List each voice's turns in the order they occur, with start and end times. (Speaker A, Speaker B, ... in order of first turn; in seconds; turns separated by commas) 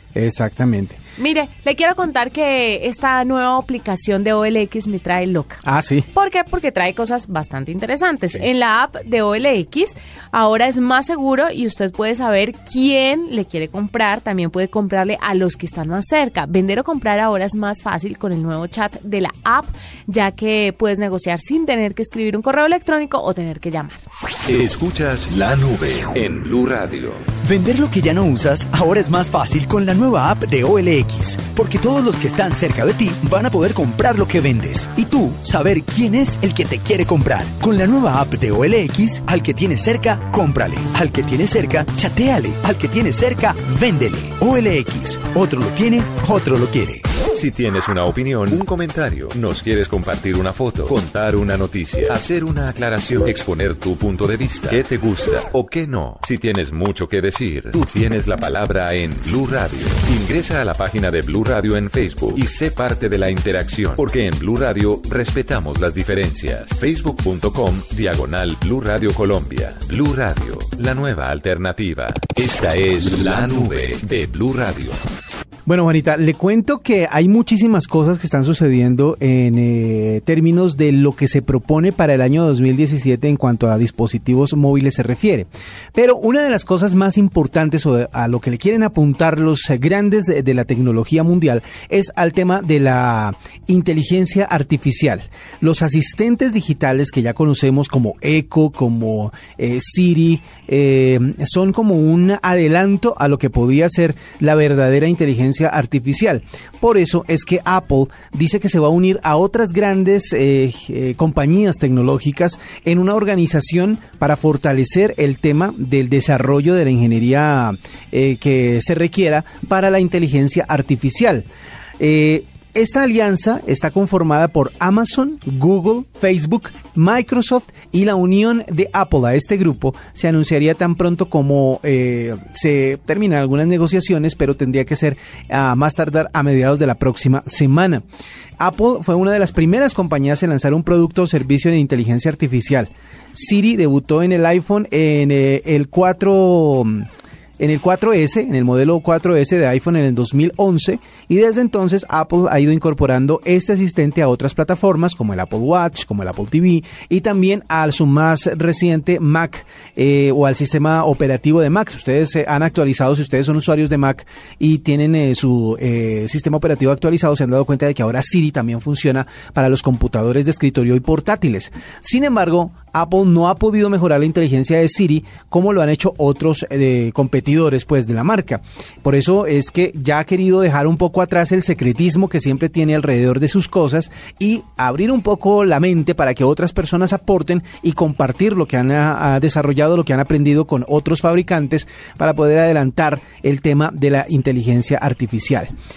Speaker A: 0.1-1.0, Speaker B: 1.2-5.6, Speaker A: 5.6-6.1, Speaker B: 6.1-24.0, Speaker C: 24.5-27.3, Speaker D: 27.4-47.0, Speaker C: 47.3-75.0, Speaker A: 75.7-121.5, Speaker A: 122.0-138.0, Speaker A: 138.6-147.1, Speaker A: 147.6-195.7